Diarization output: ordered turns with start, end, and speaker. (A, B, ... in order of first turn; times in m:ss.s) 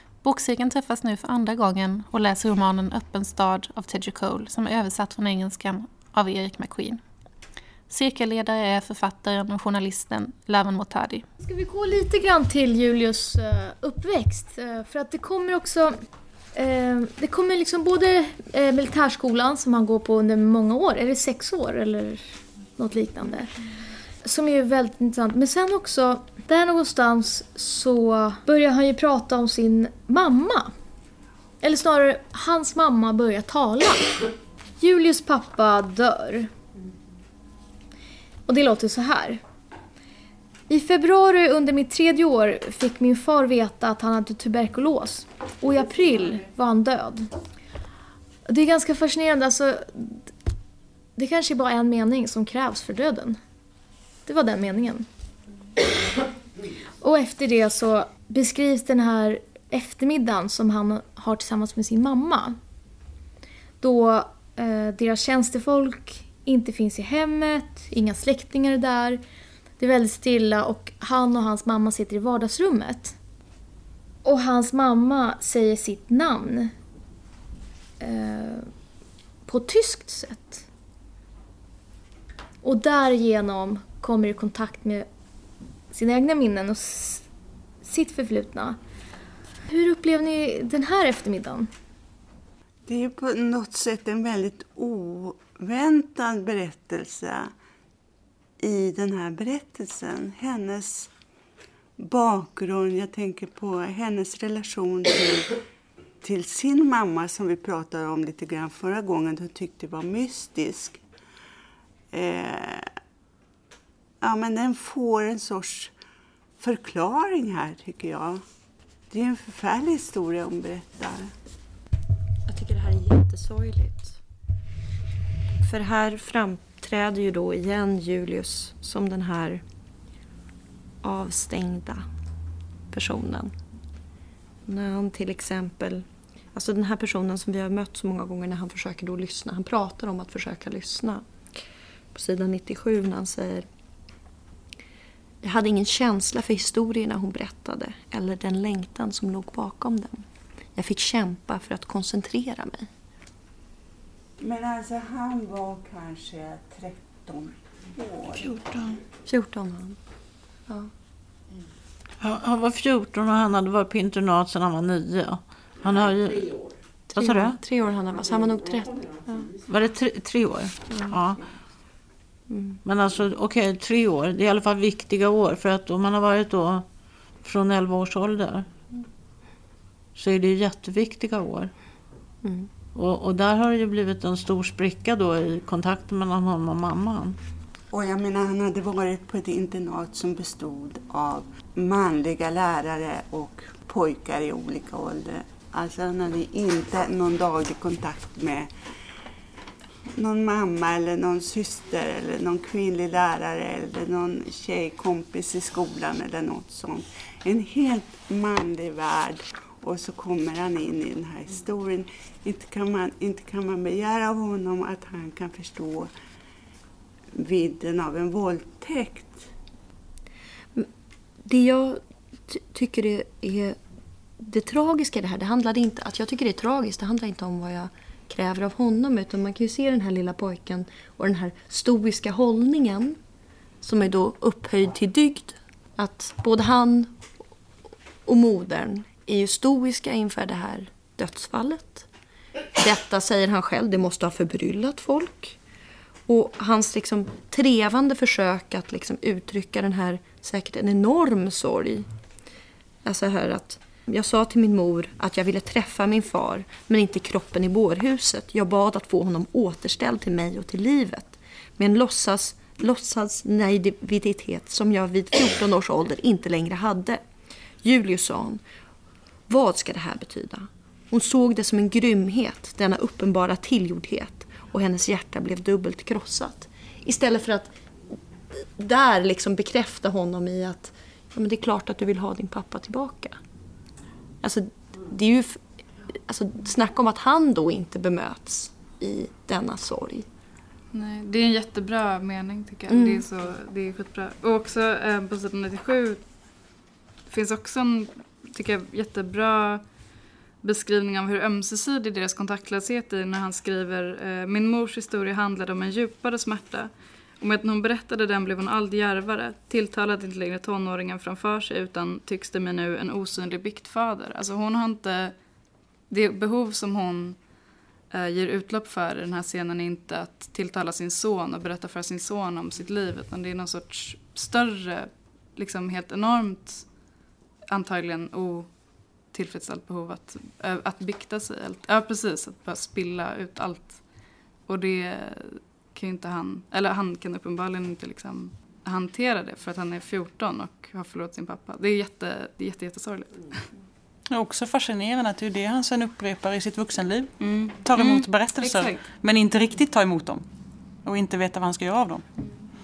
0:00.2-0:07.0 A
0:07.9-0:11.2 A
0:11.4-0:16.0 B
0:16.5-0:23.6 B
0:24.2-0:30.7 B
0:31.6-0:36.5 B
0:38.5-0:39.4 B
0:40.7-0:47.3 B
0:48.5-0:50.3 B
0:51.2-0:53.4 B
0:54.2-0:55.1 B
0:57.0-1:02.6 B
1:03.8-1:09.2 B
1:09.8-1:13.2 B
1:14.2-1:16.7 B
1:18.0-1:18.7 B
1:19.4-1:20.6 B
1:22.6-1:25.1 B
1:25.9-1:27.2 B
1:27.8-1:28.8 B
1:29.7-1:31.7 B
1:32.8-1:37.5 C
1:38.6-1:41.1 C
1:42.0-1:45.6 C
1:46.2-1:51.0 C
1:52.1-1:52.9 C
1:54.2-1:55.9 C
1:56.6-1:58.4 C
1:59.1-2:01.3 C
2:02.4-2:04.2 D
2:05.6-2:09.6 D
2:11.0-2:12.0 D
2:12.9-2:13.5 D
2:14.6-2:21.2 D
2:22.1-2:23.7 D
2:25.4-2:32.9 D
2:34.4-2:39.0 C
2:39.2-2:40.0 D
2:42.2-2:46.6 E
2:47.1-2:49.5 D
2:47.1-2:47.6 E
2:49.7-2:51.4 E
2:50.9-2:51.2 D
2:52.5-2:52.8 D
2:52.8-2:58.7 E
3:00.1-3:01.7 E
3:02.4-3:02.7 D
3:02.9-3:07.4 E
3:07.9-3:18.7 C
3:20.1-3:36.1 C
3:37.3-3:39.5 C
3:41.4-3:43.8 D
3:44.4-3:53.2 D
3:53.8-3:57.3 D
3:58.2-4:02.1 D
4:02.8-4:05.6 D
4:06.3-4:12.1 D
4:13.0-4:27.2 D
4:27.8-4:28.6 D
4:29.5-4:37.7 D
4:38.5-4:43.4 D
4:44.4-4:50.3 D
4:50.9-5:15.5 F
4:52.9-4:53.2 D
5:16.1-5:27.1 F
5:27.7-5:43.7 F
5:44.3-5:50.4 G
5:47.4-5:49.0 F
5:51.0-5:52.2 G